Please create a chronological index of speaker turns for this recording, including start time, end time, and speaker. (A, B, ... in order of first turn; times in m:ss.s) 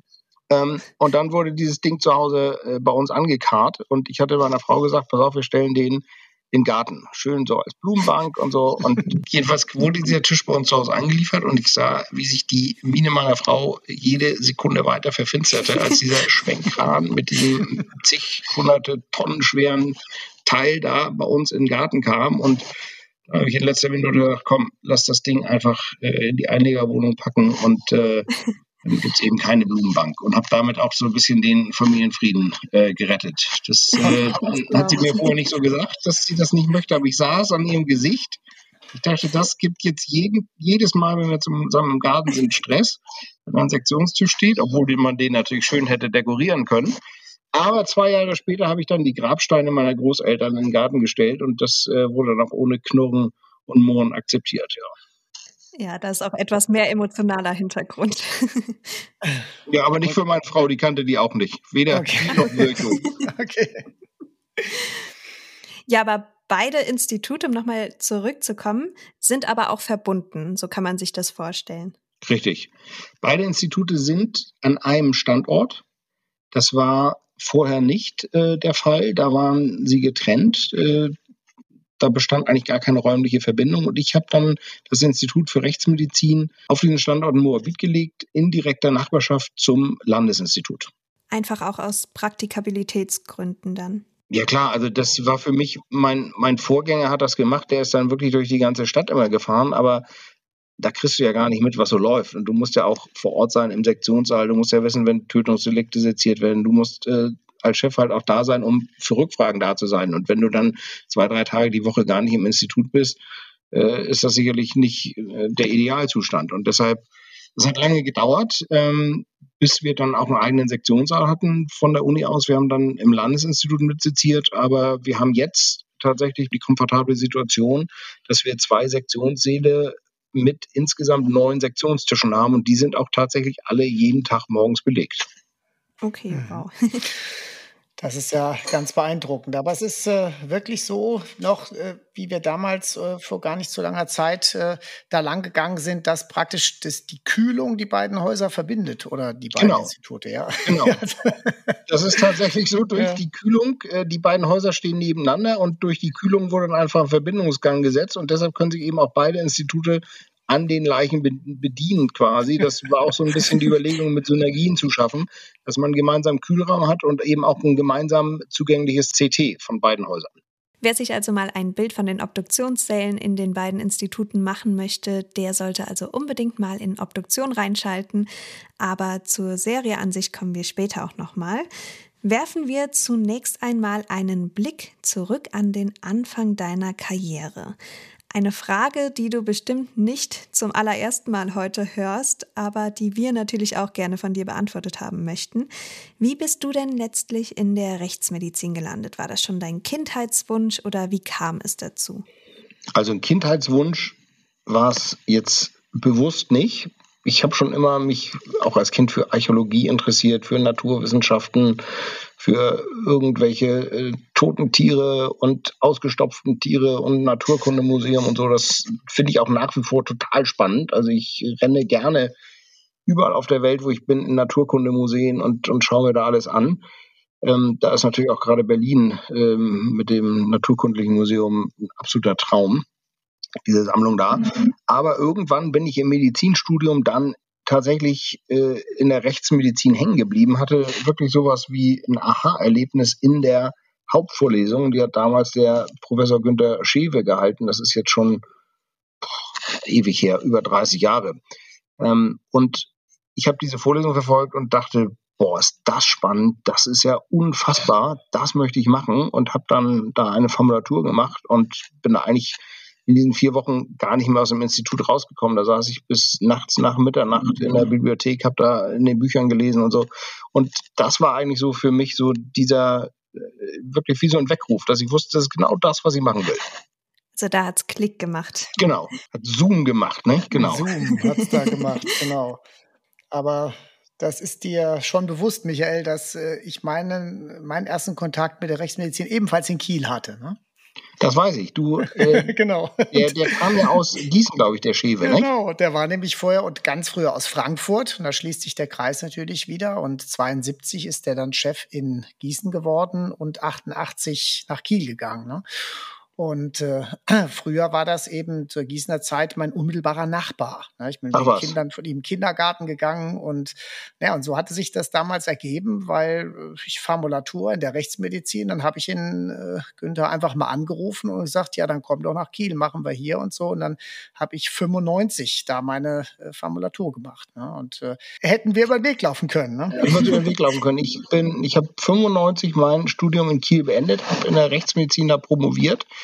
0:00.5-0:22.6 A
0:23.3-0:28.3 A
0:28.8-0:38.4 A
0:34.1-0:35.3 B
0:38.9-0:47.0 A
0:47.5-0:54.9 A
0:55.8-0:59.1 B
0:59.7-1:03.0 A
1:01.9-1:03.8 C
1:05.9-1:11.9 B
1:12.2-1:15.8 A
1:16.5-1:21.2 A
1:22.0-1:30.9 A
1:31.3-1:34.0 B
1:34.3-1:40.0 A
1:40.8-1:53.2 A
1:53.7-1:57.0 A
1:57.6-2:15.2 A
2:16.0-2:17.1 B
2:16.3-2:16.6 C
2:18.0-2:32.3 C
2:29.6-2:29.9 A
2:30.6-2:31.0 A
2:31.9-2:50.4 A
2:33.0-2:33.2 C
2:50.8-2:58.3 B
2:58.8-3:01.7 B
3:02.2-3:07.8 B
3:08.3-3:22.2 B
3:22.9-3:31.8 A
3:32.4-3:42.3 A
3:43.1-3:46.8 A
3:47.4-3:52.8 A
3:53.6-4:08.4 A
4:09.2-4:11.4 A
4:12.0-4:36.6 A
4:37.4-4:38.7 B
4:38.8-4:40.9 A
4:40.5-4:42.6 C
4:41.1-4:41.5 B
4:43.3-4:50.6 C
4:51.2-4:52.6 A
4:52.1-4:54.0 C
4:53.1-4:55.5 A
4:55.2-5:30.4 C
5:11.3-5:11.8 A
5:29.9-5:36.0 A